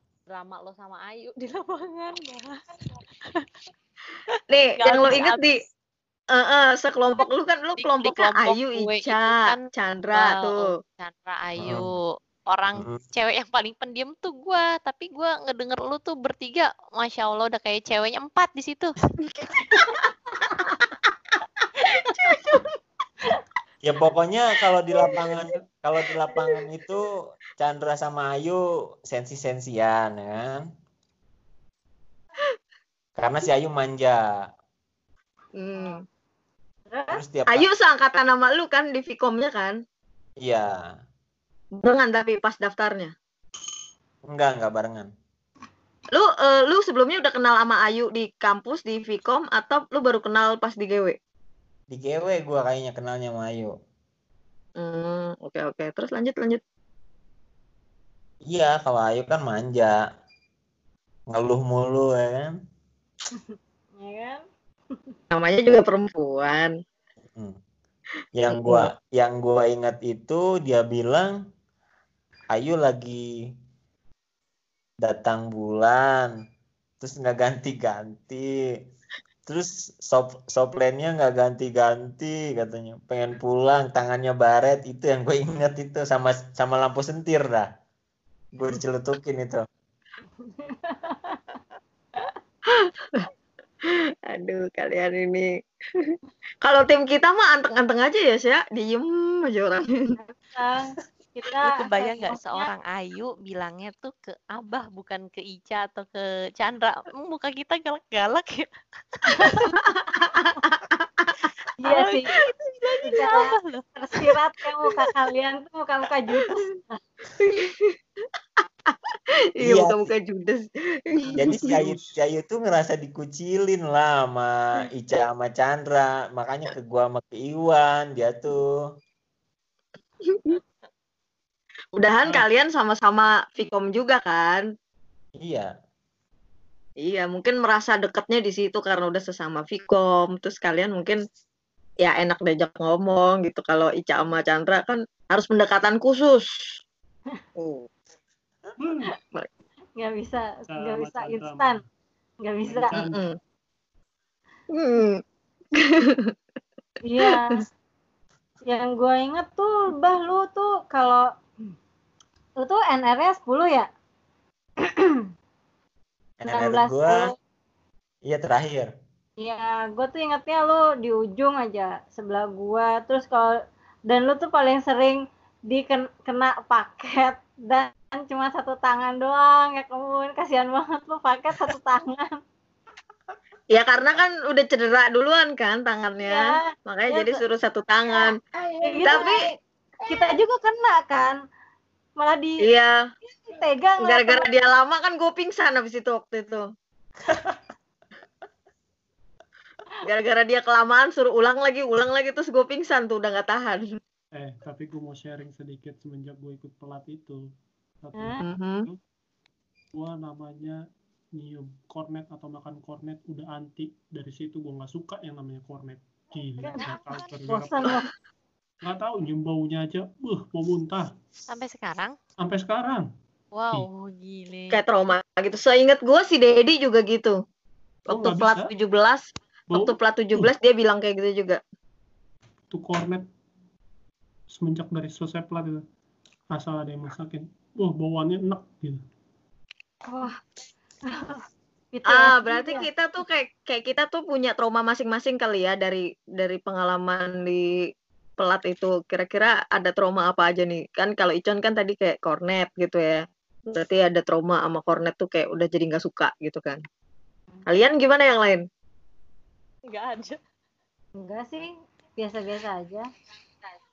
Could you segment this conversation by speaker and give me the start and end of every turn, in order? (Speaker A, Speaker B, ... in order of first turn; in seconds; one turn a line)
Speaker A: 0.3-3.5
Speaker A: 4.4-5.5
Speaker B: 4.5-5.6
Speaker B: 6.3-10.7
Speaker A: 7.8-9.6
Speaker A: 10.1-18.9
Speaker C: 11.6-11.9
Speaker B: 19.4-20.0
Speaker B: 21.8-22.6
Speaker C: 23.8-30.6
Speaker B: 25.0-25.4
Speaker C: 33.2-34.2
Speaker B: 35.6-36.0
Speaker D: 36.9-37.2
Speaker C: 37.1-37.7
Speaker B: 37.5-39.8
Speaker C: 40.4-40.9
Speaker B: 41.8-43.1
Speaker C: 44.3-45.1
Speaker B: 46.1-51.2
Speaker C: 51.9-53.8
Speaker B: 54.8-56.6
Speaker C: 58.5-60.0
Speaker C: 61.3-62.5
Speaker D: 63.3-64.4
Speaker B: 65.3-66.7
Speaker C: 68.3-71.4
Speaker B: 68.5-68.9
Speaker C: 72.5-73.3
Speaker C: 75.0-76.3
Speaker C: 77.0-78.5
Speaker C: 79.5-87.7
Speaker C: 88.5-89.6
Speaker D: 90.5-91.4
Speaker B: 92.7-93.3
Speaker B: 93.8-100.2
Speaker D: 100.2-102.7
Speaker A: 101.6-109.7
Speaker B: 109.4-111.4
Speaker D: 111.8-112.3
Speaker A: 111.8-113.8
Speaker D: 113.0-117.0
Speaker B: 117.4-118.0
Speaker B: 118.6-121.5
Speaker C: 119.6-120.0
Speaker E: 121.3-122.1
Speaker C: 121.4-128.7
Speaker B: 130.2-130.6
Speaker B: 131.9-134.7
Speaker C: 135.4-135.7
Speaker B: 137.0-141.2
Speaker B: 142.0-146.8
Speaker B: 147.6-147.9
Speaker E: 148.8-149.1
Speaker D: 150.0-151.8
Speaker E: 150.7-151.8
Speaker D: 152.4-152.9
Speaker E: 152.7-153.2
Speaker B: 152.9-153.4
Speaker B: 154.8-155.2
Speaker B: 155.8-156.3
Speaker D: 157.0-157.7
Speaker D: 158.7-161.3
Speaker D: 162.6-163.9
Speaker D: 164.8-165.3
Speaker C: 166.4-167.2
Speaker D: 166.5-167.3
Speaker C: 168.3-168.9
Speaker D: 169.4-173.5
Speaker D: 174.1-182.4
Speaker B: 183.7-188.4
Speaker D: 186.3-187.4
Speaker D: 188.8-189.6
Speaker B: 189.0-189.4
Speaker D: 190.1-191.4
Speaker D: 192.2-192.7
Speaker B: 192.6-193.0
Speaker D: 193.4-194.5
Speaker B: 194.0-196.7
Speaker C: 197.3-197.6
Speaker B: 200.1-204.0
Speaker E: 204.4-207.4
Speaker E: 208.0-209.0
Speaker D: 208.2-208.4
Speaker B: 208.4-208.9
Speaker E: 209.9-210.8
Speaker E: 211.4-218.0
Speaker D: 216.6-218.1
Speaker E: 218.8-221.1
Speaker A: 221.5-222.2
Speaker E: 222.4-223.1
Speaker A: 223.5-224.8
Speaker B: 224.7-227.4
Speaker E: 228.1-228.7
Speaker B: 228.1-231.6
Speaker E: 229.7-230.5
Speaker E: 232.7-233.2
Speaker E: 234.5-235.8
Speaker E: 236.5-239.0
Speaker D: 240.1-240.4
Speaker D: 241.1-242.9
Speaker B: 242.1-247.7
Speaker B: 248.4-256.8
Speaker B: 257.7-258.6
Speaker A: 259.9-260.4
Speaker D: 261.2-263.1